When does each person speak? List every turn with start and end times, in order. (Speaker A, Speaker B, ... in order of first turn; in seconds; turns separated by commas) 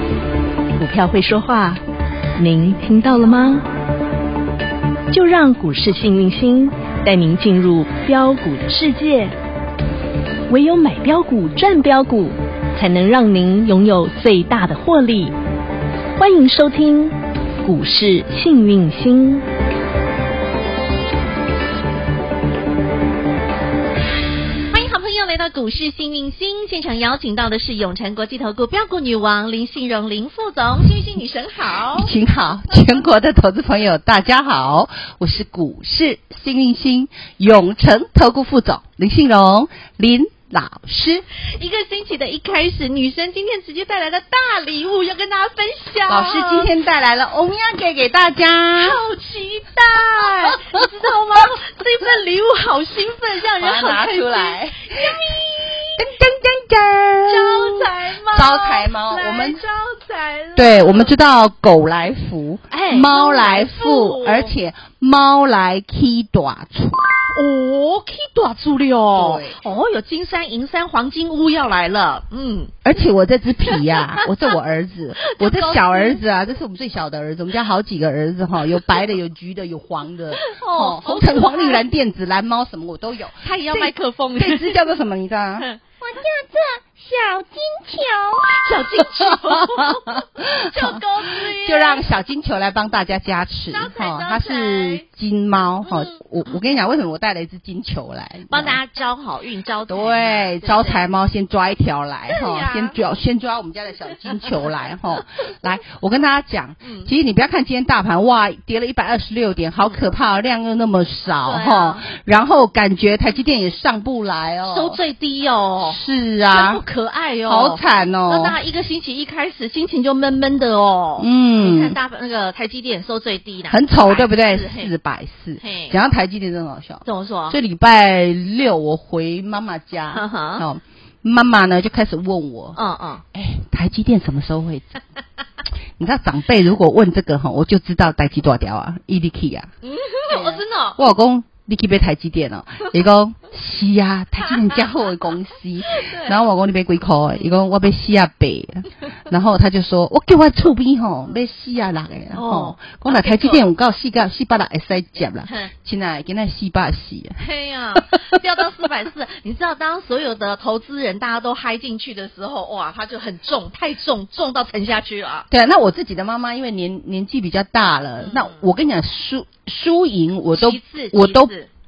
Speaker A: 0.8-1.8, Speaker A: 2.4-3.7, Speaker A: 5.1-9.3, Speaker A: 10.5-15.3, Speaker A: 16.2-19.4, Speaker B: 24.7-32.1, Speaker C: 31.9-41.2, Speaker B: 41.5-46.7, Speaker C: 46.1-49.0, Speaker B: 48.8-56.1, Speaker C: 49.9-50.9, Speaker C: 53.6-55.1, Speaker C: 55.9-59.6, Speaker B: 57.2-61.2, Speaker C: 60.5-67.1, Speaker B: 62.7-64.5, Speaker B: 67.3-72.8, Speaker C: 69.1-69.6, Speaker C: 72.8-98.8, Speaker B: 73.6-74.5, Speaker B: 75.2-76.2, Speaker B: 78.7-79.0, Speaker B: 80.3-81.8, Speaker B: 83.4-84.9, Speaker B: 85.6-86.2, Speaker B: 88.5-92.0, Speaker B: 93.7-95.0, Speaker B: 95.8-96.5, Speaker B: 98.5-101.1, Speaker C: 99.9-115.0, Speaker B: 102.3-103.0, Speaker B: 104.3-104.6, Speaker B: 106.8-107.1, Speaker B: 111.4-112.0, Speaker B: 114.7-116.0, Speaker C: 115.8-116.8, Speaker B: 116.5-124.9, Speaker C: 117.5-118.5, Speaker C: 121.2-122.0, Speaker C: 123.7-132.8, Speaker B: 125.6-126.0, Speaker B: 127.0-127.6, Speaker B: 130.1-130.6, Speaker B: 132.8-133.2, Speaker C: 133.3-135.0, Speaker C: 136.0-139.7, Speaker B: 139.8-141.0, Speaker C: 140.3-157.4, Speaker B: 144.4-144.8, Speaker B: 145.8-146.3, Speaker B: 152.3-153.6, Speaker B: 155.5-155.7, Speaker B: 157.4-165.5, Speaker C: 157.9-158.4, Speaker C: 165.5-171.5, Speaker B: 168.2-168.6, Speaker B: 170.5-171.7